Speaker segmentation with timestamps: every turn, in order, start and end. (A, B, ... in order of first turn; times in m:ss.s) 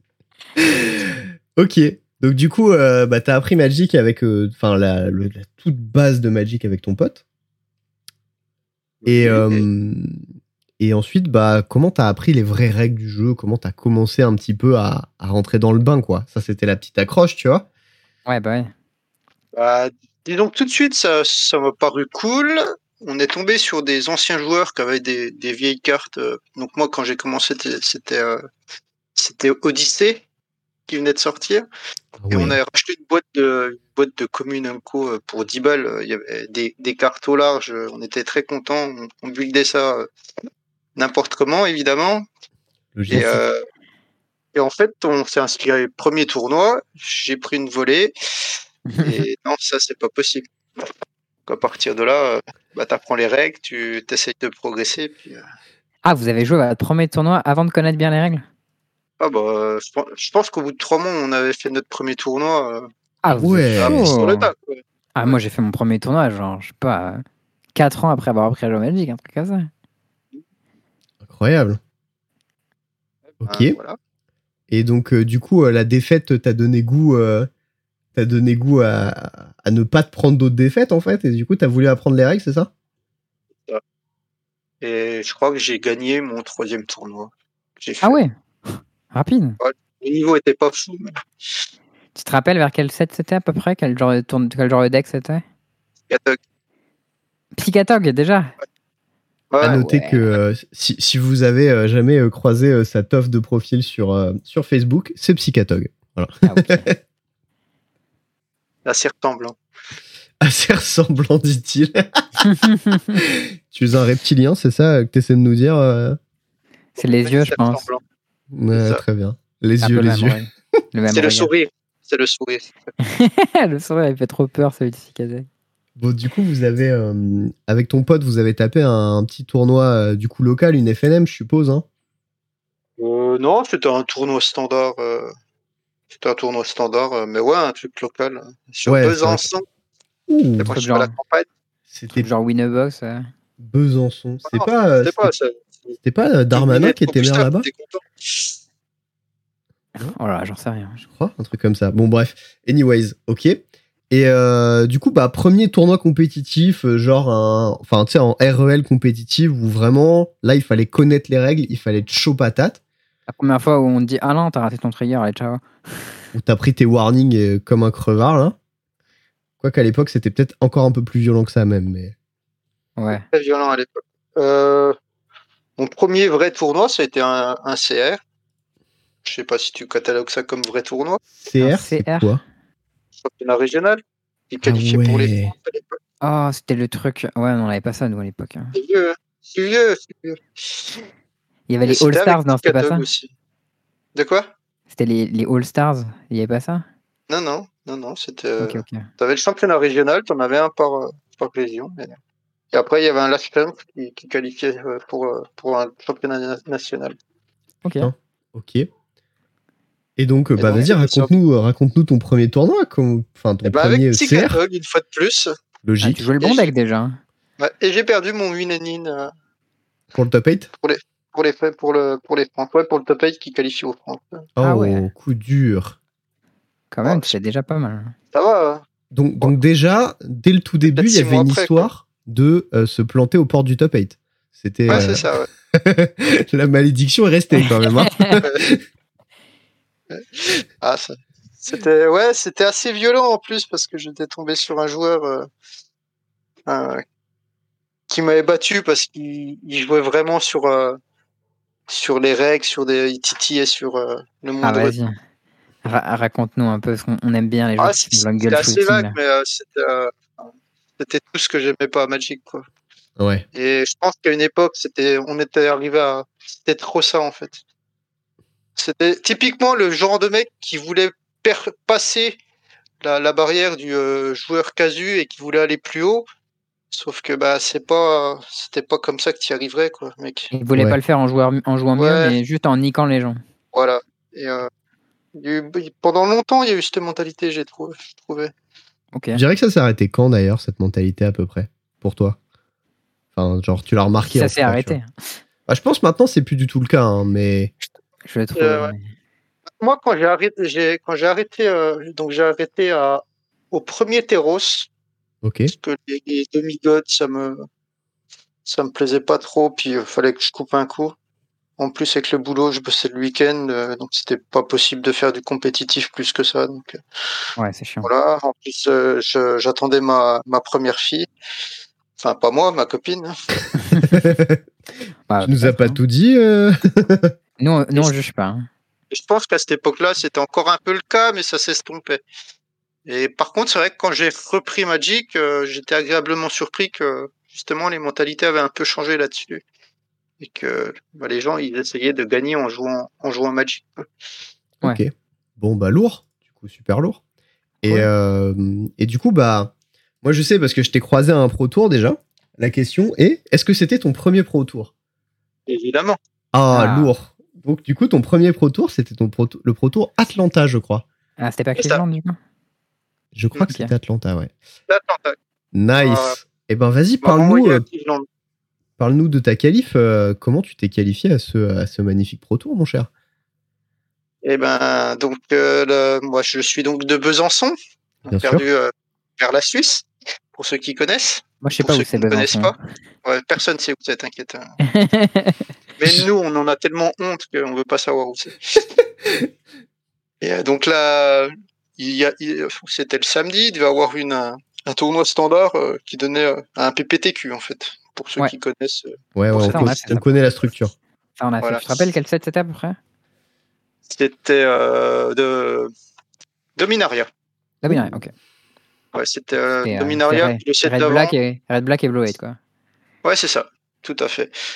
0:00.6-0:07.2 A
0:09.0-0:09.6 B
0:09.1-0:10.2 A
0:10.8-0:17.6 A
0:18.3-0:18.7 C
0:19.5-0:28.4 B
0:29.2-0:30.2 B
0:30.9-0:31.6 B
0:32.2-0:32.6 A
0:32.3-0:40.1 B
0:41.0-0:42.2 B
0:42.9-0:43.4 A
0:43.1-0:43.6 B
0:44.5-0:50.9 B
0:48.9-0:49.2 C
0:51.5-0:55.4 B
0:56.0-0:58.4 C
0:59.2-1:05.4 B
1:03.2-1:04.5 C
1:03.4-1:04.1 A
1:05.1-1:07.2 C
1:07.7-1:09.7 C
1:11.2-1:11.8 A
1:13.3-1:14.0 B
1:13.4-1:13.7 A
1:14.7-1:17.5 A
1:18.1-1:22.7 A
1:24.8-1:28.2 B
1:28.0-1:29.6 C
1:29.6-1:31.2 B
1:32.1-1:35.4 C
1:36.1-1:36.4 B
1:37.6-1:38.5 C
1:39.5-1:39.8 B
1:39.6-1:47.0 A
1:39.6-1:40.3 C
1:46.4-1:46.9 C
1:48.9-1:49.6 B
1:50.4-1:52.4 A
1:52.4-1:53.2 C
1:53.2-1:56.2 A
1:57.0-1:57.8 C
1:57.0-1:58.0 B
1:58.5-2:00.4 A
1:58.7-1:59.0 B
1:59.8-2:01.5 C
2:01.1-2:02.7 B
2:03.0-2:05.5 C
2:06.0-2:11.8 A
2:13.0-2:15.3 B
2:16.2-2:19.6 B
2:18.9-2:19.5 A
2:20.3-2:20.7 A
2:20.6-2:21.5 B
2:20.7-2:21.1 C
2:21.9-2:22.3 A
2:22.1-2:23.3 C
2:23.6-2:25.3 A
2:24.5-2:26.0 B
2:26.0-2:27.7 A
2:26.5-2:28.5 B
2:30.0-2:31.0 C
2:31.0-2:42.8 A
2:43.3-2:45.6 C
2:46.3-2:48.6 A
2:49.6-2:52.1 A
2:53.0-2:53.2 C
2:53.1-2:54.9 B
2:55.8-2:58.2 B
2:59.2-3:01.2 B
3:01.4-3:02.4 A
3:01.6-3:02.3 C
3:03.2-3:06.0 B
3:04.6-3:05.5 A
3:06.2-3:08.8 C
3:08.8-3:11.0 B
3:11.7-3:13.1 C
3:11.9-3:13.3 B
3:14.1-3:14.5 B
3:14.9-3:16.8 C
3:17.3-3:22.2 B
3:18.6-3:19.1 C
3:22.7-3:27.2 B
3:27.8-3:28.1 C
3:28.0-3:28.9 A
3:30.2-3:34.6 A
3:30.6-3:31.3 B
3:33.6-3:35.5 B
3:35.8-3:36.2 A
3:36.0-3:37.2 C
3:36.4-3:36.7 B
3:37.6-3:39.3 B
3:40.1-3:40.7 A
3:40.8-3:44.5 B
3:44.6-3:46.0 A
3:44.6-3:45.1 C
3:46.9-3:48.1 C
3:47.0-3:47.4 B
3:48.3-3:48.8 B
3:49.1-3:58.8 A
3:50.9-3:51.9 B
3:54.9-3:55.5 B
3:57.6-3:58.4 C
4:00.8-4:05.5 B
4:06.6-4:07.0 B
4:08.1-4:11.0 B
4:11.9-4:14.9 B
4:14.6-4:15.2 C
4:15.8-4:19.2 C
4:17.8-4:22.6 B
4:23.2-4:23.4 A
4:23.5-4:27.6 B
4:28.8-4:32.4 B
4:33.0-4:36.3 B
4:36.9-4:40.5 B
4:40.5-4:43.4 C
4:42.0-4:42.4 B
4:43.7-4:44.7 B
4:45.4-4:48.5 B
4:49.1-4:49.4 C
4:49.3-4:52.4 A
4:53.4-4:55.0 A
4:54.3-4:55.1 C
4:55.7-4:57.7 A
4:58.2-4:59.1 C
4:58.6-4:58.9 B
4:59.8-5:04.9 B
5:05.4-5:05.7 A
5:05.7-5:07.6 B
5:08.6-5:11.1 B
5:11.8-5:17.0 B
5:17.6-5:18.1 C
5:18.0-5:21.3 B
5:22.2-5:23.3 B
5:23.8-5:24.2 C
5:24.1-5:24.6 A
5:25.3-5:26.0 C
5:25.4-5:27.3 A
5:27.6-5:28.7 C
5:29.1-5:32.2 B
5:33.1-5:39.6 B
5:40.4-5:44.1 B
5:44.8-5:47.2 A
5:47.8-5:48.1 C
5:47.8-5:54.9 A
5:55.7-5:56.2 B
5:56.5-6:01.0 A
5:56.7-5:57.1 C
6:01.4-6:02.4 C
6:01.8-6:02.0 B
6:03.4-6:04.5 A
6:03.6-6:03.9 C
6:04.9-6:05.4 B
6:05.7-6:07.8 A
6:06.0-6:06.4 B
6:07.2-6:08.2 B
6:09.0-6:13.1 A
6:14.4-6:22.7 B
6:18.3-6:18.6 A
6:21.6-6:22.8 C
6:23.2-6:24.7 B
6:24.8-6:25.7 C
6:26.0-6:28.9 B
6:30.4-6:40.0 B
6:39.4-6:40.9 A
6:39.6-6:40.3 C
6:41.4-6:43.0 C
6:41.6-6:42.0 B
6:44.1-6:45.9 B
6:46.8-6:47.3 B
6:47.8-6:48.3 C
6:47.9-6:48.2 A
6:49.1-6:51.3 B
6:49.8-6:52.6 C
6:53.2-6:54.5 B